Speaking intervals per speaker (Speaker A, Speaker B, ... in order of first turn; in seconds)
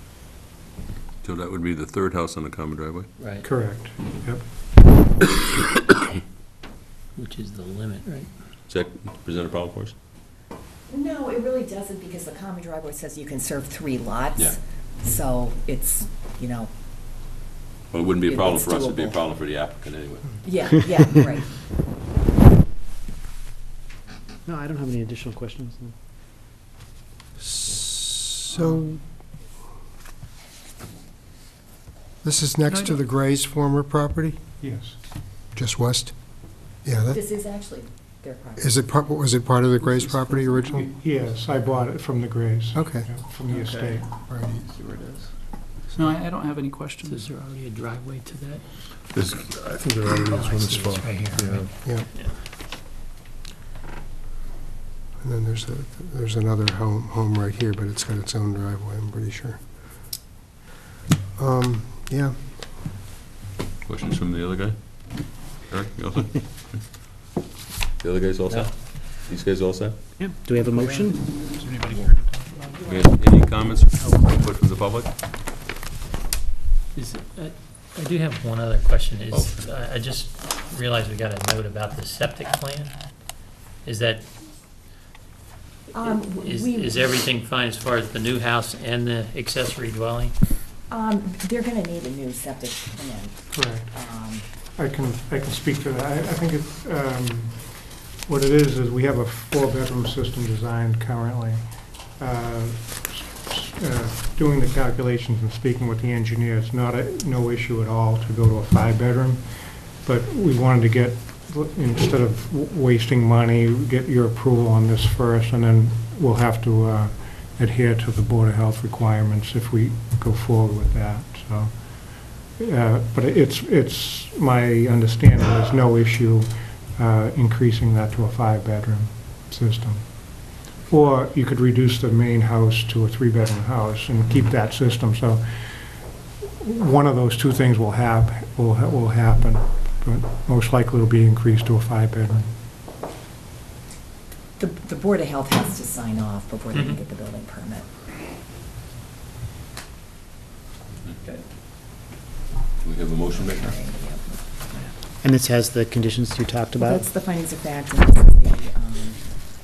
Speaker A: 1.2-3.1, 8.7-9.9, 17.9-20.4, 49.2-49.8, 63.9-64.8, 65.6-66.4, 68.0-70.0, 72.8-75.1, 79.3-79.6, 152.8-153.8
Speaker B: 3.2-3.4, 7.2-8.3, 47.0-48.6, 50.2-52.4, 76.9-83.0, 83.8-84.3, 86.4-90.3, 146.7-147.0
Speaker C: 3.4-4.4, 28.5-28.8, 34.6-35.0, 40.9-44.1, 93.5-93.9, 94.8-97.7, 98.2-101.6, 102.2-109.4, 110.0-121.7, 122.6-130.0, 130.9-135.4, 136.6-142.5
Speaker D: 10.9-16.7, 18.1-19.2, 20.4-21.5, 37.1-38.9, 85.9-87.1, 90.9-93.4, 93.9-94.4, 144.6-147.9, 153.2-154.9, 156.8-159.2
Speaker E: 24.4-25.9, 28.6-29.0, 70.2-71.2, 74.0-74.2, 155.2-157.1
Speaker F: 27.5-28.3, 32.2-34.4, 35.5-36.1, 36.8-37.2, 38.6-40.9, 42.7-43.1, 44.3-44.6, 51.8-52.1, 55.2-59.6, 61.4-62.4
Speaker G: 43.5-44.0, 44.7-45.3, 45.9-47.2, 70.6-72.8
Speaker H: 49.2-51.7